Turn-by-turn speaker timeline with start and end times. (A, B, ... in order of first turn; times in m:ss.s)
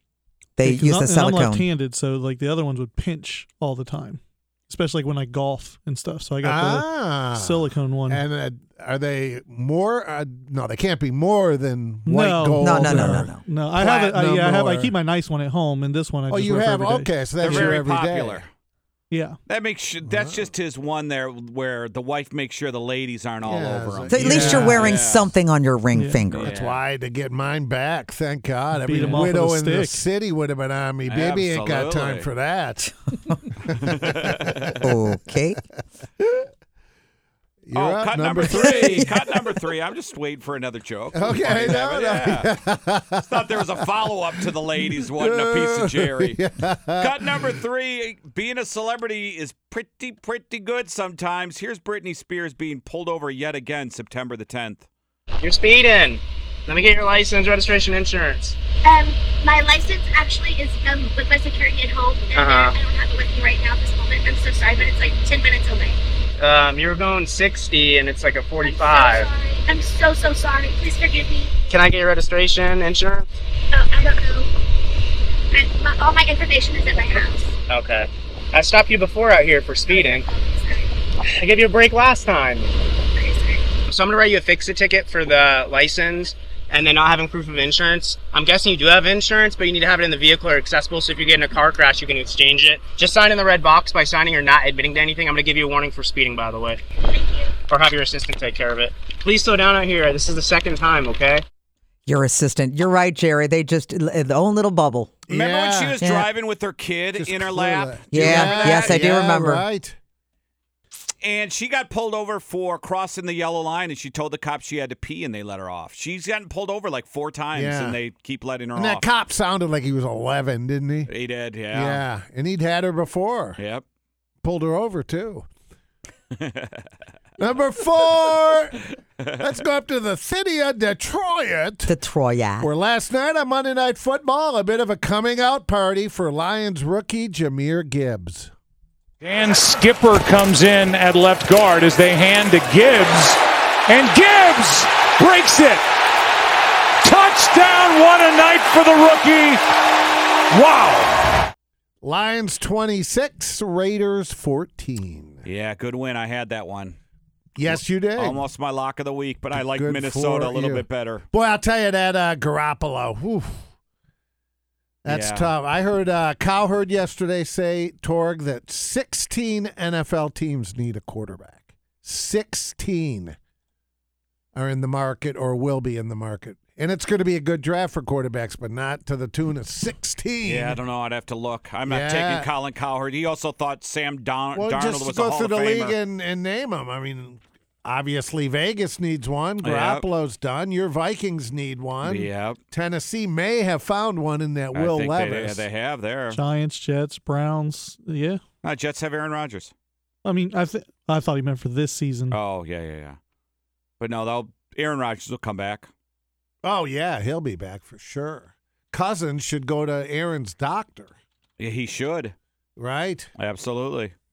0:00.6-0:01.6 A
0:00.6-0:08.2 B
0:06.4-0:14.9 C
0:12.0-0:17.7 B
0:12.6-0:13.4 A
0:16.3-0:18.4 C
0:17.4-0:18.5 D
0:19.1-0:19.4 B
0:19.5-0:25.3 D
0:20.0-0:20.5 C
0:23.4-0:25.0 C
0:24.1-0:26.5 A
0:24.2-0:24.8 B
0:25.9-0:26.2 B
0:26.3-0:26.8 D
0:26.4-0:32.9 C
0:28.7-0:30.0 B
0:31.1-0:32.3 D
0:33.6-0:34.9 C
0:33.8-0:34.8 D
0:34.8-0:35.6 A
0:36.2-0:36.4 C
0:37.6-0:39.2 C
0:37.7-0:42.5 D
0:41.1-0:47.5 C
0:43.2-0:46.4 D
0:47.0-0:54.9 D
0:55.4-0:58.6 E
0:58.8-1:06.0 F
1:02.3-1:02.7 E
1:06.4-1:09.3 E
1:08.6-1:11.8 F
1:11.7-1:13.3 E
1:13.7-1:14.5 F
1:15.5-1:17.5 F
1:17.7-1:20.2 E
1:19.9-1:20.9 F
1:21.2-1:22.7 E
1:23.0-1:23.6 F
1:23.9-1:36.8 E
1:37.1-1:37.5 F
1:37.7-1:41.4 E
1:42.1-1:45.1 A
1:45.3-1:46.0 C
1:45.3-1:49.0 D
1:46.0-1:46.3 A
1:47.1-1:50.0 C
1:48.1-1:49.6 A
1:51.2-1:59.0 D
1:57.5-1:58.0 C
1:58.7-2:01.1 C
2:01.1-2:02.0 D
2:01.7-2:03.6 C
2:03.6-2:03.8 D
2:04.4-2:05.5 C
2:06.3-2:06.9 D
2:07.4-2:08.8 C
2:09.4-2:11.9 C
2:11.9-2:12.7 A
2:12.6-2:18.5 C
2:19.2-2:25.8 G
2:27.0-2:29.6 G
2:30.5-2:31.2 G
2:32.0-2:35.4 C
2:35.4-2:37.0 D
2:37.6-2:38.4 C
2:37.7-2:41.2 D
2:39.5-2:43.6 C
2:45.0-2:53.4 C
2:45.0-2:45.5 D
2:54.5-3:00.8 C
3:00.4-3:06.0 D
3:01.9-3:02.5 C
3:04.5-3:15.6 C
3:09.6-3:10.0 D
3:12.0-3:12.6 D
3:14.7-3:16.4 D
3:16.3-3:18.4 B
3:18.6-3:19.7 D
3:20.2-3:22.4 B
3:22.3-3:23.2 D
3:24.0-3:25.9 D
3:26.6-3:31.1 C
3:31.6-3:32.3 D
3:32.8-3:33.3 C
3:33.4-3:34.1 D